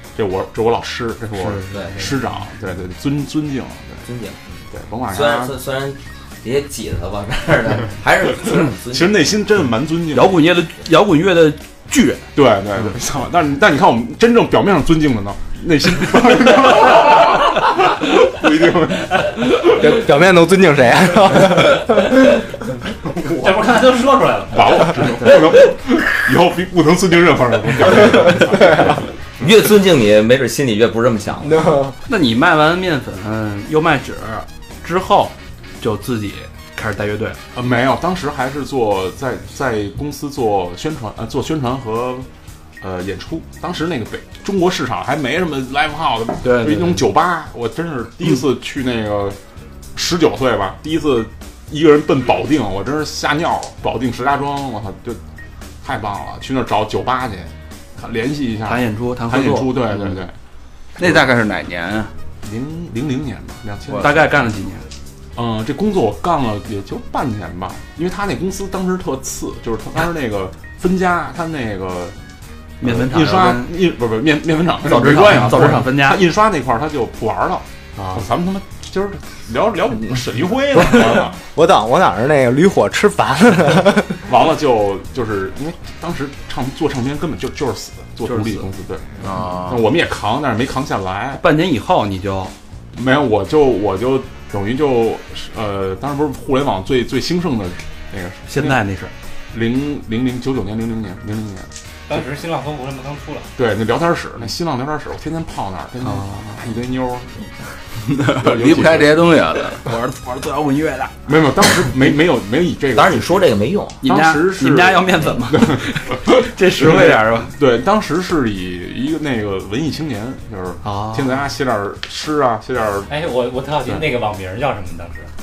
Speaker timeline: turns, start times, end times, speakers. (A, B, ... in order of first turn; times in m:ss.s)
0:00.2-0:04.1 A
0:01.4-0:02.1 B
0:01.7-0:02.1 C
0:04.0-0:04.4 C
0:04.7-0:05.6 A
0:05.1-0:09.3 C
0:08.9-0:10.4 A
0:10.1-0:12.3 B
0:12.3-0:19.9 A
0:19.6-0:22.2 D
0:23.1-0:23.8 A
0:23.3-0:25.3 E
0:24.5-0:29.1 A
0:29.4-0:31.6 C
0:31.4-0:31.9 D
0:32.1-0:37.4 B
0:37.5-0:42.3 A
0:42.8-0:49.4 A
0:46.4-0:47.0 B
0:50.0-0:55.2 A
0:55.8-1:00.3 A
0:58.6-1:00.2 B
1:01.0-1:02.1 F
1:02.4-1:04.4 A
1:04.0-1:04.8 B
1:05.4-1:12.2 A
1:12.8-1:13.7 B
1:12.8-1:21.4 A
1:14.8-1:16.2 B
1:18.0-1:18.2 B
1:21.6-1:24.2 D
1:24.3-1:31.4 A
1:28.2-1:28.7 B
1:29.2-1:29.8 F
1:31.4-1:32.5 B
1:32.9-1:38.8 A
1:38.5-1:39.1 B
1:39.5-1:41.7 A
1:42.1-1:43.5 E
1:43.6-1:47.5 A
1:46.0-1:46.6 B
1:48.1-1:49.8 F
1:48.3-1:49.2 A
1:49.8-1:51.3 B
1:51.3-1:53.5 A
1:53.0-1:54.0 C
1:54.0-1:57.5 B
1:54.0-2:03.1 A
2:00.8-2:01.4 B
2:03.1-2:05.3 E